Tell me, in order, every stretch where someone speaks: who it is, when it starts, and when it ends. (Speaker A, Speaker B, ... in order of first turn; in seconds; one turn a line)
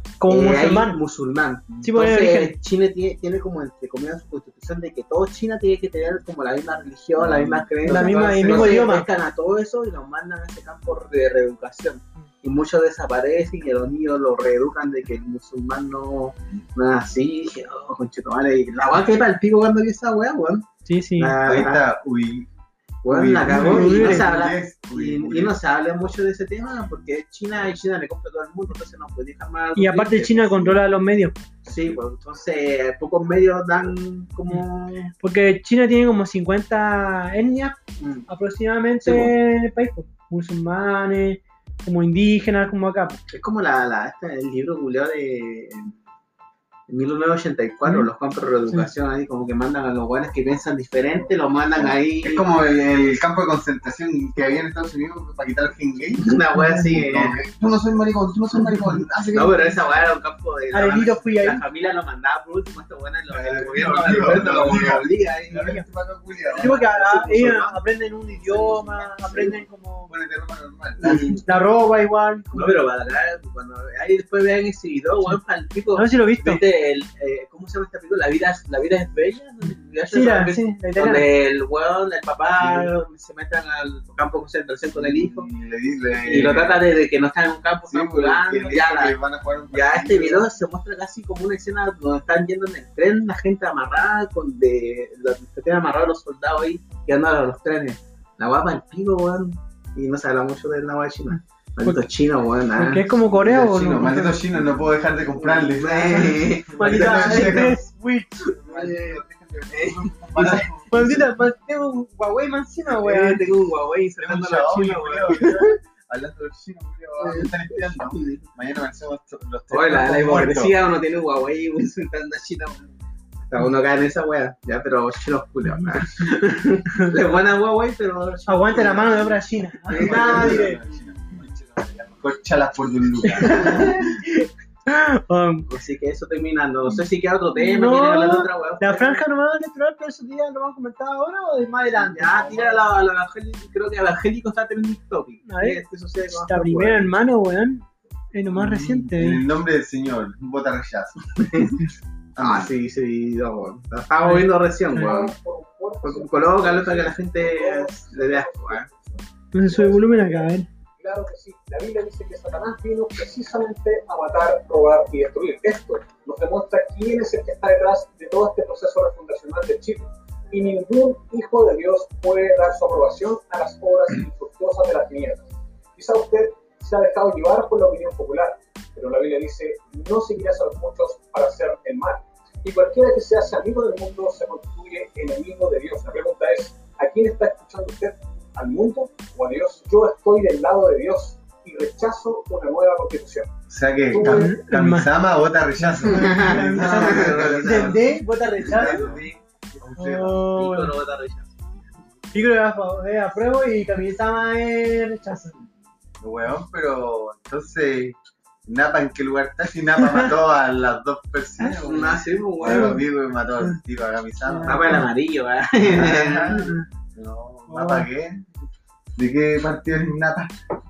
Speaker A: 0.2-1.0
Speaker B: 0.3-21.8
Speaker A: 1.8-2.5
Speaker C: 7.2-8.9
Speaker A: 7.8-9.1
Speaker A: 20.9-21.4
Speaker C: 21.4-22.5
Speaker B: 23.0-30.8
Speaker C: 23.1-25.5
Speaker A: 23.5-24.3
Speaker A: 29.8-31.5
Speaker B: 31.6-35.1
Speaker A: 35.2-37.8
Speaker B: 38.0-38.3
Speaker A: 38.3-43.2
Speaker B: 39.0-39.3
Speaker B: 43.3-46.0
Speaker B: 46.9-52.5
Speaker C: 51.8-60.1
Speaker B: 56.2-57.5
Speaker A: 56.6-57.0
Speaker B: 59.3-65.8
Speaker A: 60.7-61.6
Speaker C: 63.3-66.9
Speaker B: 66.4-67.8
Speaker A: 66.6-70.1
Speaker B: 68.5-69.5
Speaker C: 70.1-71.4
Speaker A: 71.0-72.8
Speaker B: 72.5-85.5
Speaker A: 76.0-76.6
Speaker A: 80.1-81.2
Speaker C: 84.9-86.8
Speaker B: 86.2-89.2
Speaker C: 87.9-90.5
Speaker B: 89.7-103.0
Speaker A: 102.8-104.4
Speaker C: 103.2-107.8
Speaker B: 105.4-107.8
Speaker A: 106.8-108.5
Speaker B: 108.5-110.7
Speaker C: 108.5-111.3
Speaker A: 110.9-113.4
Speaker B: 112.9-115.7
Speaker C: 114.2-120.7
Speaker B: 117.2-118.4
Speaker B: 119.7-122.9
Speaker B: 123.5-130.7
Speaker A: 128.5-130.8
Speaker C: 129.9-134.2
Speaker A: 133.3-135.7
Speaker B: 135.7-139.2
Speaker A: 137.6-142.7
Speaker B: 142.0-147.1
Speaker A: 145.5-145.8
Speaker A: 146.4-149.4
Speaker C: 149.1-151.3
Speaker B: 151.4-151.8
Speaker C: 152.3-152.7
Speaker B: 152.4-155.3
Speaker D: 155.0-193.5
Speaker B: 156.0-158.9
Speaker A: 159.5-160.7
Speaker C: 193.7-200.4
Speaker D: 194.2-194.5
Speaker A: 194.2-195.1
Speaker B: 196.0-199.4
Speaker A: 196.1-199.0
Speaker A: 200.0-200.9
Speaker B: 200.5-201.6
Speaker A: 202.3-205.6
Speaker C: 206.2-215.1
Speaker A: 210.0-210.3
Speaker B: 211.6-213.1
Speaker A: 212.7-213.0
Speaker A: 214.4-215.1
Speaker B: 214.7-216.7
Speaker C: 215.8-218.4
Speaker A: 217.7-218.1
Speaker C: 219.2-220.5